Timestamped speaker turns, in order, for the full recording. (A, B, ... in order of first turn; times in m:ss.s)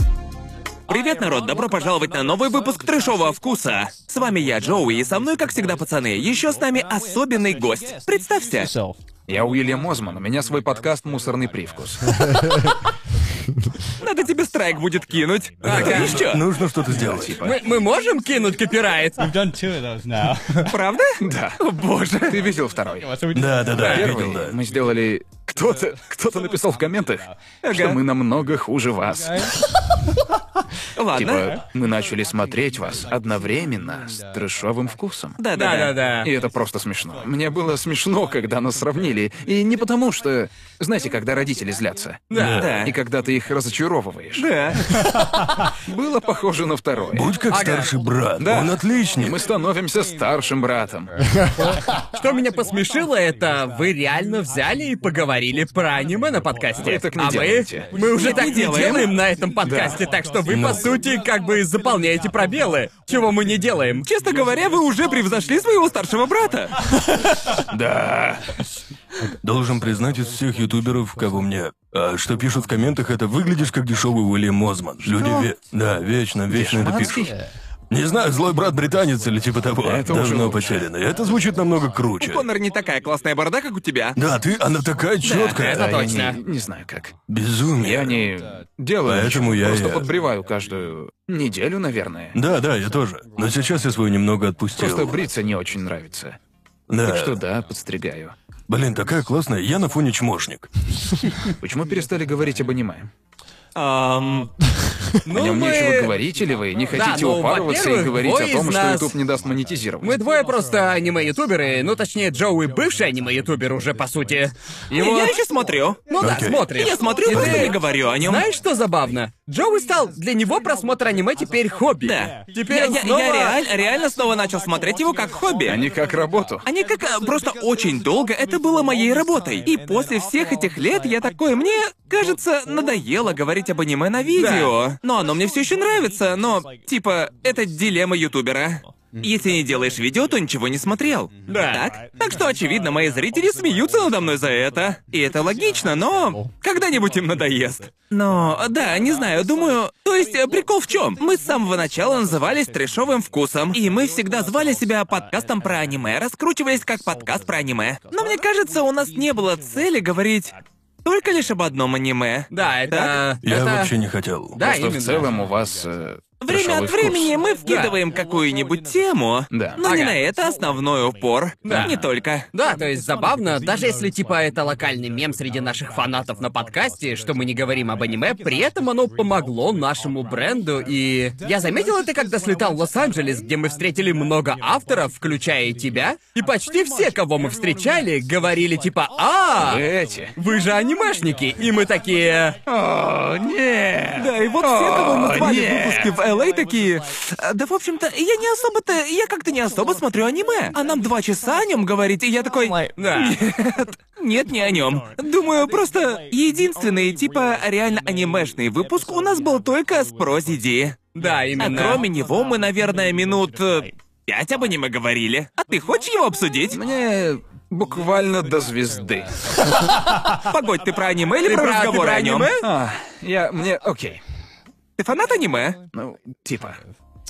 0:00.9-0:08.7 A
0:09.3-0:12.1 B
0:14.0-0:16.4 A
0:15.6-0:17.4 C
0:15.6-0:16.3 D
0:16.9-0:17.6 B
0:17.4-0:19.3 D
0:19.2-0:20.8 E
0:20.7-0:22.4 A
0:21.2-0:21.6 B
0:22.2-0:23.1 B
0:23.1-0:23.5 E
0:23.3-0:24.6 C
0:23.7-0:29.5 B
0:23.7-0:24.1 D
0:27.6-0:28.0 A
0:31.0-0:31.5 A
0:31.1-0:35.4 B
0:35.4-0:36.0 A
0:35.6-0:36.3 D
0:36.2-0:44.5 B
0:42.3-0:42.6 D
0:42.3-0:42.8 C
0:42.6-0:43.0 A
0:44.4-0:44.8 A
0:45.8-0:47.3 B
0:47.1-0:49.4 C
0:47.5-0:47.9 D
0:48.4-0:51.1 B
0:52.1-1:04.1 D
0:56.8-0:57.9 B
0:58.0-0:59.2 A
0:59.6-1:00.0 B
1:00.5-1:00.9 C
1:04.0-1:06.7 A
1:07.7-1:08.5 B
1:09.4-1:17.3 C
1:15.0-1:15.5 B
1:16.5-1:17.3 B
1:17.9-1:22.4 C
1:19.8-1:20.9 B
1:22.2-1:24.2 A
1:24.2-1:26.0 C
1:25.2-1:25.6 A
1:25.6-1:26.4 D
1:25.7-1:27.1 B
1:27.3-1:28.2 C
1:27.8-1:32.4 B
1:29.0-1:30.1 C
1:32.3-1:35.2 C
1:34.8-1:36.4 B
1:36.9-1:37.4 C
1:37.0-1:38.3 B
1:38.7-1:40.7 C
1:41.6-1:43.1 B
1:43.8-1:44.5 A
1:45.2-1:46.1 D
1:45.3-1:50.2 B
1:46.9-1:49.1 D
1:50.0-1:55.4 D
1:54.9-1:56.0 A
1:56.1-2:03.6 D
1:56.2-1:56.7 C
1:56.7-1:58.5 A
1:57.3-1:57.8 C
2:02.0-2:05.8 A
2:05.7-2:06.6 B
2:06.7-2:43.2 A
2:14.4-2:14.7 D
2:21.5-2:21.8 D
2:42.5-2:43.9 D
2:43.4-2:44.6 C
2:44.5-2:45.3 D
2:44.6-2:47.4 B
2:46.4-2:52.5 A
2:47.7-2:47.9 D
2:49.5-2:49.8 B
2:49.8-2:50.1 D
2:51.7-2:52.0 D
2:52.5-3:09.8 D
3:09.6-3:10.3 B
3:10.4-3:12.6 D
3:12.7-3:16.1 B
3:14.2-3:31.0 A
3:23.0-3:23.4 D
3:31.2-3:32.0 D
3:31.6-3:36.8 A
3:36.7-3:39.3 B
3:40.4-3:42.6 A
3:41.4-3:42.6 D
3:42.6-3:44.2 B
3:45.0-3:45.8 A
3:45.9-3:46.8 B